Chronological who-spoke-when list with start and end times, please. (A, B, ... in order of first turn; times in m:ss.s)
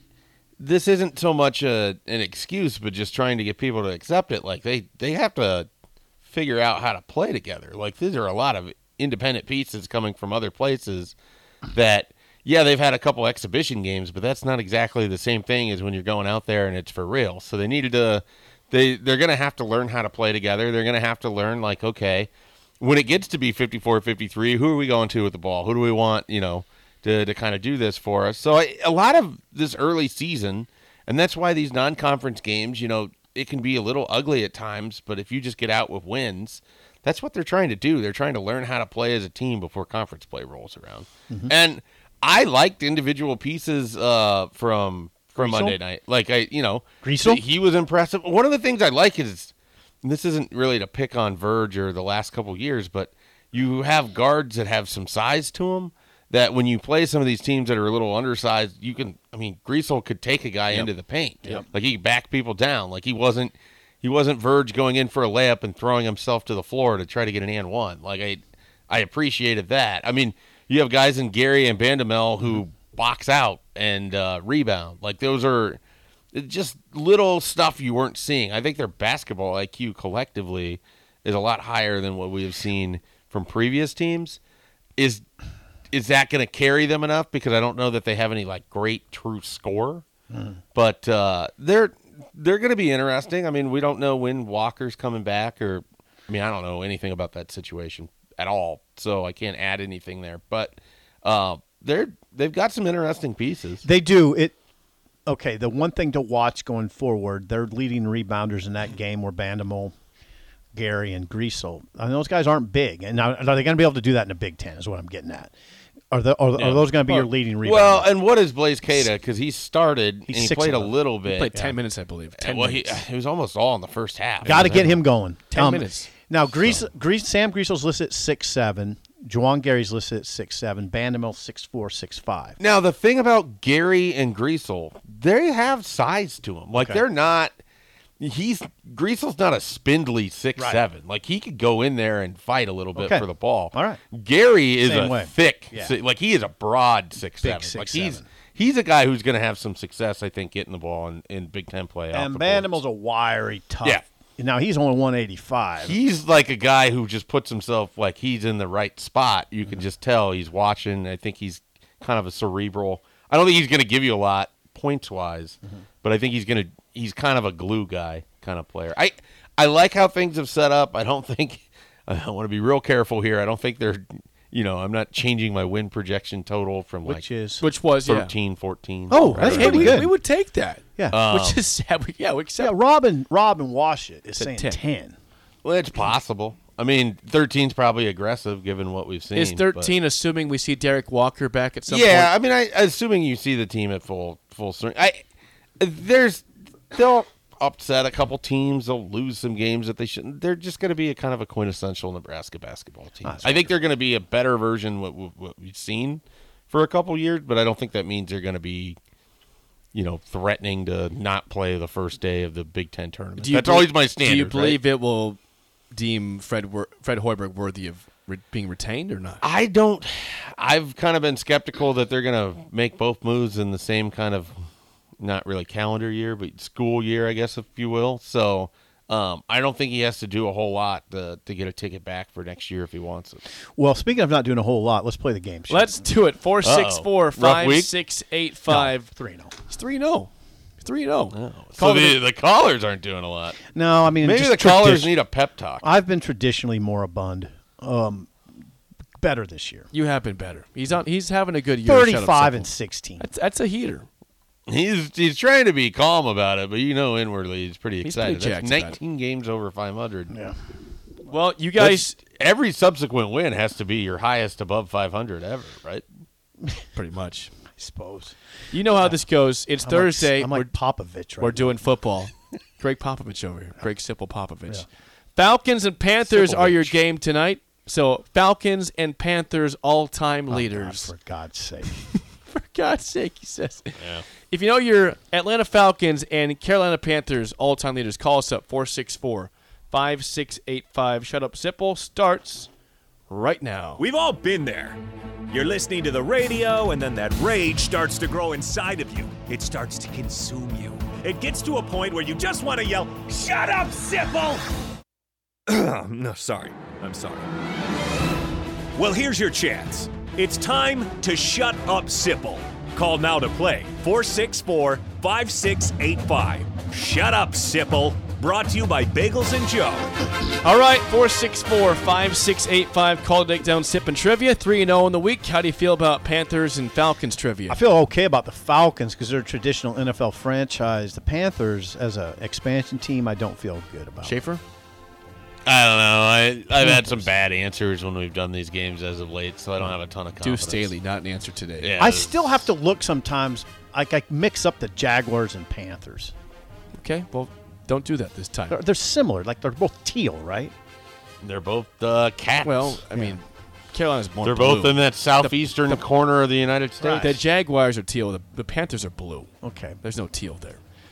0:00.6-0:05.7 A
0:06.2-0:11.1 A
0:11.7-0:22.3 A
0:22.8-1:15.8 A
0:45.4-0:45.8 B
0:47.0-0:47.4 B
1:16.3-1:24.4 A
1:25.0-1:25.2 A
1:25.9-1:30.0 A
1:30.3-1:30.6 B
1:30.7-1:43.8 A
1:43.8-1:44.5 B
1:45.2-1:49.9 B
1:50.7-1:55.5 B
1:56.1-1:58.2 B
1:56.6-1:56.9 A
1:57.6-2:01.6 A
2:00.3-2:00.9 B
2:01.3-2:03.0 C
2:02.4-2:04.9 A
2:04.4-2:06.1 C
2:04.4-2:12.6 B
2:12.6-2:17.6 A
2:16.8-2:17.0 B
2:18.2-2:32.8 A
2:20.6-2:20.8 B
2:22.9-2:24.0 B
2:24.8-2:26.0 B
2:27.4-2:28.3 B
2:32.1-2:36.0 B
2:35.8-2:57.2 A
2:57.0-2:57.6 B
2:57.6-2:58.3 C
2:58.0-3:00.0 A
2:59.1-3:00.1 B
2:59.1-3:02.7 C
3:01.1-3:01.6 A
3:02.6-3:05.2 B
3:04.3-3:04.8 C
3:05.6-3:09.9 A
3:09.3-3:12.3 C
3:11.9-3:15.2 A
3:15.8-3:29.0 A
3:23.2-3:23.7 B
3:29.9-3:34.8 A
3:33.4-3:35.4 C
3:35.9-3:39.4 C
3:39.4-3:44.6 A
3:45.2-3:53.4 A
3:53.8-3:56.1 B
3:55.7-3:59.1 C
3:56.6-3:57.9 A
3:58.7-3:59.5 B
3:59.7-4:00.3 C
4:00.8-4:02.2 C
4:01.3-4:03.6 A
4:03.7-4:05.1 B
4:04.2-4:05.8 A
4:05.8-4:08.3 B
4:09.2-4:09.9 B
4:09.9-4:14.1 C
4:11.8-4:13.3 B
4:14.7-4:20.3 A
4:18.0-4:19.0 C
4:20.3-4:20.6 B
4:21.2-4:22.2 C
4:21.8-4:26.0 A
4:26.9-4:27.5 C
4:27.8-4:28.3 B
4:28.7-4:30.7 C
4:28.9-4:29.2 B
4:29.8-4:31.8 B
4:31.4-4:34.8 C
4:35.4-4:41.1 C
4:36.3-4:36.9 B
4:40.5-4:42.0 B
4:42.4-4:52.7 C
4:44.0-4:44.2 A
4:53.3-4:54.0 C
4:54.0-5:04.6 D
5:05.7-5:07.5 D
5:08.9-5:20.1 D
5:20.6-5:27.8 C
5:27.7-5:34.4 B
5:34.2-5:34.6 C
5:35.6-5:40.9 A
5:36.8-5:37.3 B
5:40.4-5:41.9 C
5:41.8-5:42.6 A
5:42.0-5:46.3 B
5:46.9-5:48.8 C
5:48.7-5:50.7 B
5:51.4-5:53.0 A
5:52.6-5:56.0 C
5:53.1-5:53.4 B
5:54.4-5:57.3 A
5:57.0-5:57.4 B
5:57.0-5:59.5 C
5:59.6-6:00.0 B
6:00.0-6:00.8 C